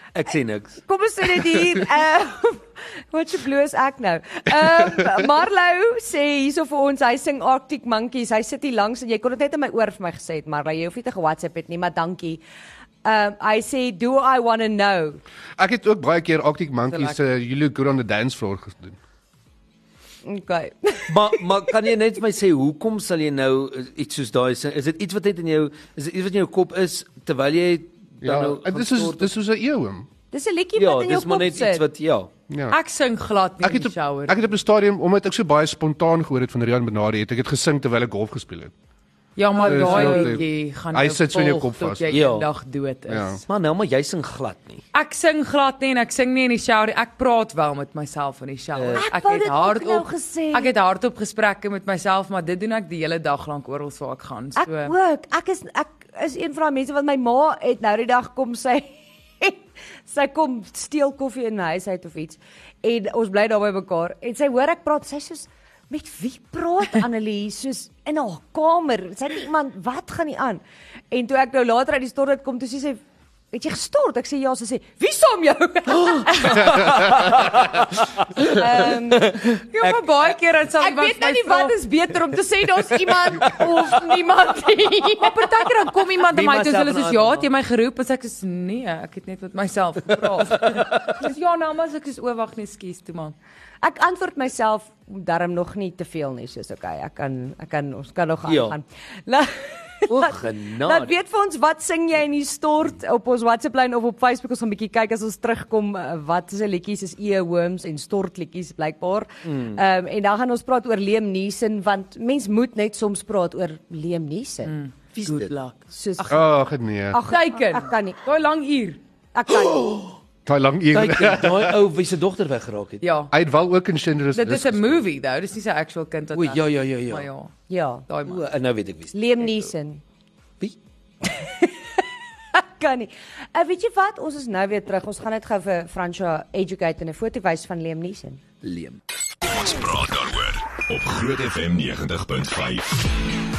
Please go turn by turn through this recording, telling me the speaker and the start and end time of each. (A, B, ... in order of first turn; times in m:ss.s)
0:00.1-0:00.8 A
0:00.8-0:12.4 B
0:13.0-0:15.2 B
0:15.6-0:19.0 C
0:16.9-0:17.2 D
0:20.2-0:21.7 B
0:21.1-0:29.3 A
0:28.2-0:30.1 C
0:30.3-0:31.8 B
0:30.8-0:32.3 A
0:32.5-0:32.8 C
0:32.7-0:34.4 D
0:33.6-0:38.7 C
0:39.4-0:43.4 D
0:39.6-0:42.1 C
0:39.6-0:40.4 B
0:42.1-0:42.5 A
0:43.1-0:43.4 C
0:43.5-0:44.8 A
0:44.9-0:54.9 D
0:48.7-0:49.0 A
0:48.9-0:50.7 B
0:54.6-1:13.0 B
1:13.5-1:17.0 B
1:15.9-1:20.2 A
1:18.4-1:19.4 B
1:19.7-1:21.8 D
1:20.8-1:25.7 B
1:25.1-1:33.3 D
1:26.3-1:27.5 A
1:30.7-1:31.1 A
1:33.8-1:54.7 B
1:38.4-1:38.8 A
1:40.1-1:41.1 A
1:49.4-1:49.8 A
1:54.6-1:56.4 D
1:55.1-1:55.5 A
1:55.9-1:56.5 B
1:56.3-1:57.2 C
1:57.1-1:58.2 B
1:57.3-1:59.0 D
1:59.3-1:59.9 B
1:59.6-2:00.2 A
2:00.4-2:01.8 C
2:00.9-2:03.0 A
2:03.0-2:03.3 D
2:03.3-2:05.0 C
2:04.3-2:07.5 D
2:06.3-2:07.3 A
2:07.7-2:08.0 B
2:08.1-2:08.4 D
2:08.2-2:09.1 A
2:09.1-2:10.0 B
2:11.2-2:11.7 B
2:12.5-2:18.4 B
2:18.6-2:19.0 A
2:19.4-2:23.2 E